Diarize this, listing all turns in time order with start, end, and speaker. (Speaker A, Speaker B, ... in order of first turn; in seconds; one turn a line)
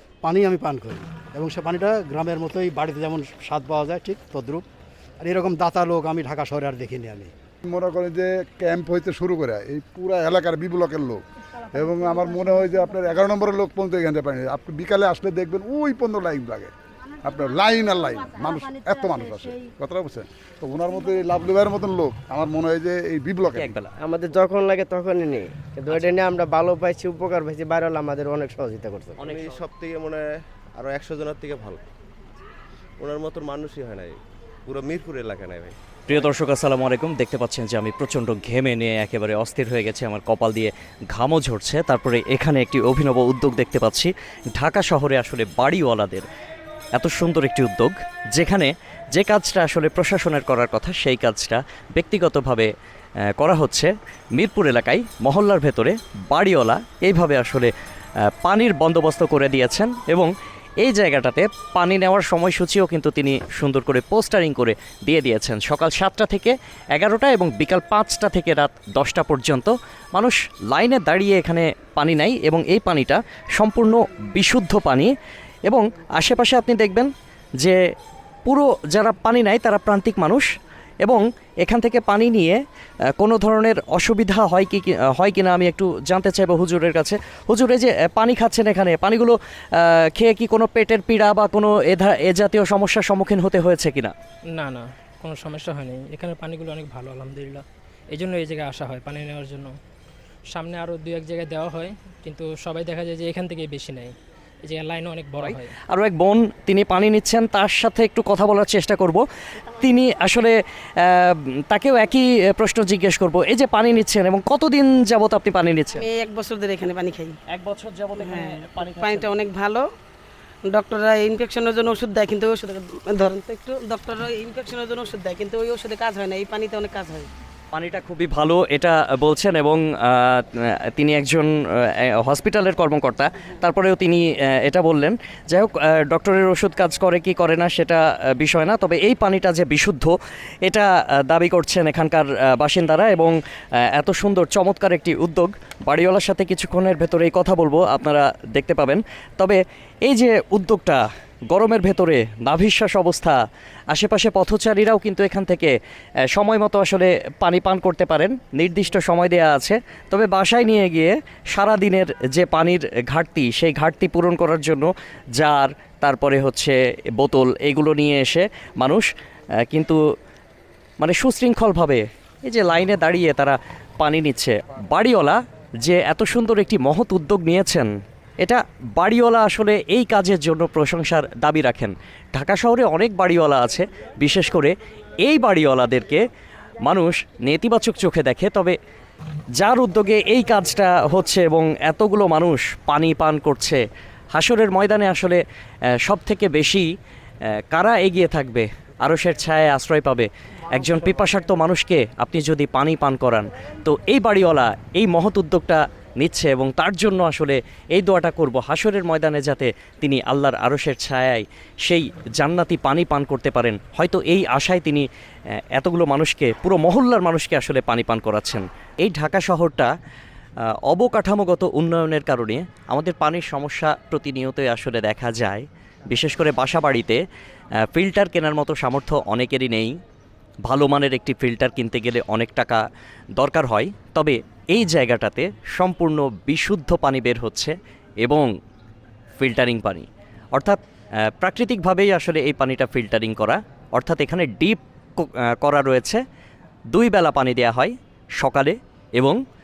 Speaker A: 0.2-4.7
Speaker A: 5.2-7.3
Speaker B: 7.7-16.7
Speaker B: 17.2-23.7
Speaker C: 23.6-23.9
Speaker D: 24.0-29.2
Speaker C: 29.2-29.6
Speaker E: 29.2-31.8
Speaker E: 33.0-34.1
Speaker E: 34.7-35.8
Speaker C: 36.1-46.3
Speaker C: 47.0-52.7
Speaker C: 53.4-57.7
Speaker C: 58.4-75.1
Speaker C: 75.7-77.1
Speaker C: 78.5-80.5
Speaker C: 81.0-82.6
Speaker C: 83.2-94.1
Speaker F: 94.5-99.7
Speaker F: 100.5-104.1
Speaker F: 104.7-105.7
Speaker C: 105.4-109.2
Speaker C: 109.8-116.0
Speaker G: 115.9-117.3
Speaker C: 117.5-119.3
Speaker G: 118.2-119.8
Speaker G: 120.7-127.3
Speaker C: 127.7-131.5
Speaker C: 132.2-140.1
Speaker C: 140.7-143.3
Speaker C: 143.9-153.4
Speaker C: 153.9-155.7
Speaker C: 156.3-169.1
Speaker C: 169.7-170.0
Speaker C: 171.0-177.9
Speaker C: 178.4-184.7
Speaker C: 185.2-186.2
Speaker C: 186.8-188.8
Speaker C: 189.6-193.8
Speaker C: 194.3-195.4
Speaker C: 196.0-196.9
Speaker C: 197.7-215.1
Speaker C: 215.8-219.9
Speaker C: 220.9-227.2
Speaker C: 227.9-229.9
Speaker C: 230.7-232.8
Speaker C: 233.4-238.5
Speaker C: 239.4-246.2
Speaker C: 246.9-249.4